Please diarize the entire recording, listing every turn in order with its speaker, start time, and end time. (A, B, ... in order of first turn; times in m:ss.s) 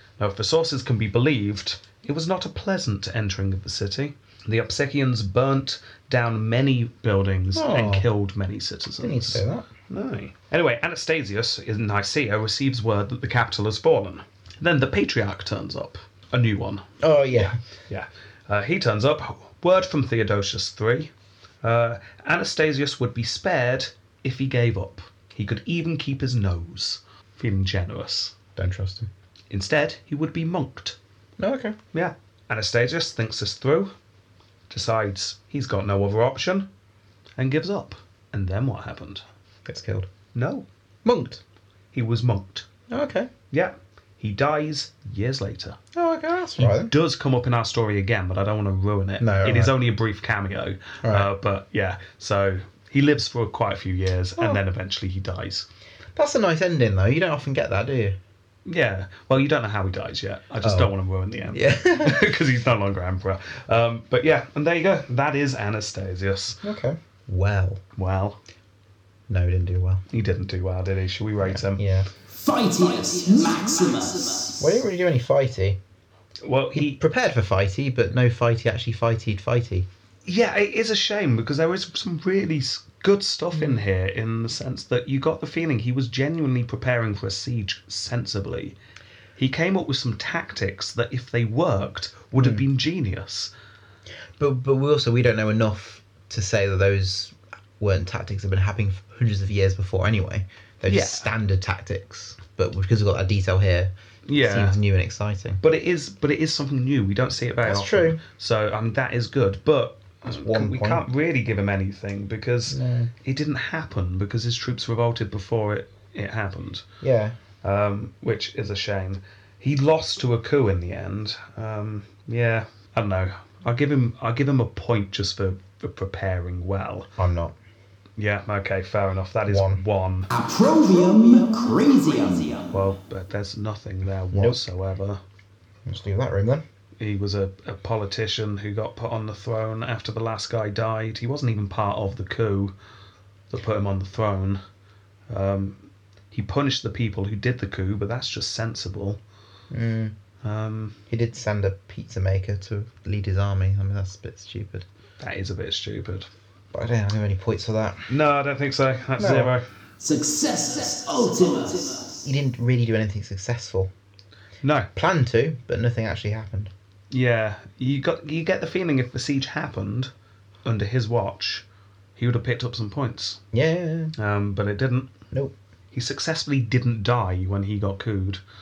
0:00.2-0:21.1 A
0:07.5-0:08.1 B
0:09.0-0:09.7 B
0:17.0-0:17.6 B
0:21.6-0:28.4 A
0:28.6-0:29.1 B
0:29.5-0:31.0 A
0:31.4-0:31.8 B
0:31.9-0:33.9 A
0:34.7-0:36.7 A
0:37.4-0:39.2 A
0:39.7-0:40.1 B
0:40.4-0:40.7 A
0:41.0-0:41.4 B
0:41.9-0:42.7 A
0:42.9-0:43.3 B
0:43.5-0:45.8 A
0:45.9-0:46.9 B
0:46.6-0:55.7 A
0:49.2-0:49.8 B
0:51.0-0:51.3 B
0:56.2-0:58.2 B
0:58.7-1:06.6 A
1:00.6-1:00.9 B
1:01.5-1:02.3 B
1:06.6-1:07.8 B
1:08.0-1:08.4 A
1:09.3-1:10.0 B
1:10.1-1:11.8 A
1:11.4-1:12.1 B
1:12.3-1:14.6 C
1:14.6-1:15.8 B
1:16.4-1:17.0 A
1:16.8-1:19.9 B
1:20.3-1:28.8 A
1:23.6-1:23.8 B
1:29.4-1:33.5 A
1:32.4-1:32.6 B
1:34.4-1:45.6 B
1:40.9-1:41.3 A
1:44.3-1:44.8 A
1:45.6-1:56.8 A
1:47.6-1:48.2 B
1:50.3-1:51.1 B
1:52.7-1:53.1 B
1:57.0-1:57.4 B
1:57.6-2:07.1 A
2:07.2-2:07.6 B
2:08.2-2:10.3 A
2:09.5-2:09.8 B
2:10.3-2:12.7 C
2:12.7-2:15.2 A
2:14.3-2:14.6 B
2:15.9-2:16.6 B
2:17.0-2:22.7 A
2:23.5-2:24.6 A
2:25.3-2:29.2 A
2:29.7-2:30.2 B
2:30.4-2:31.0 A
2:31.1-2:34.9 B
2:35.2-2:36.3 A
2:36.7-2:38.1 B
2:38.1-2:39.6 A
2:39.2-2:39.5 B
2:40.0-2:42.2 C
2:42.2-2:43.9 B
2:44.6-2:44.9 A
2:45.0-2:46.7 B
2:47.1-2:50.1 A
2:50.6-2:51.6 A
2:52.2-2:53.4 A
2:53.5-2:54.1 B
2:54.2-2:55.1 A
2:55.9-2:58.4 A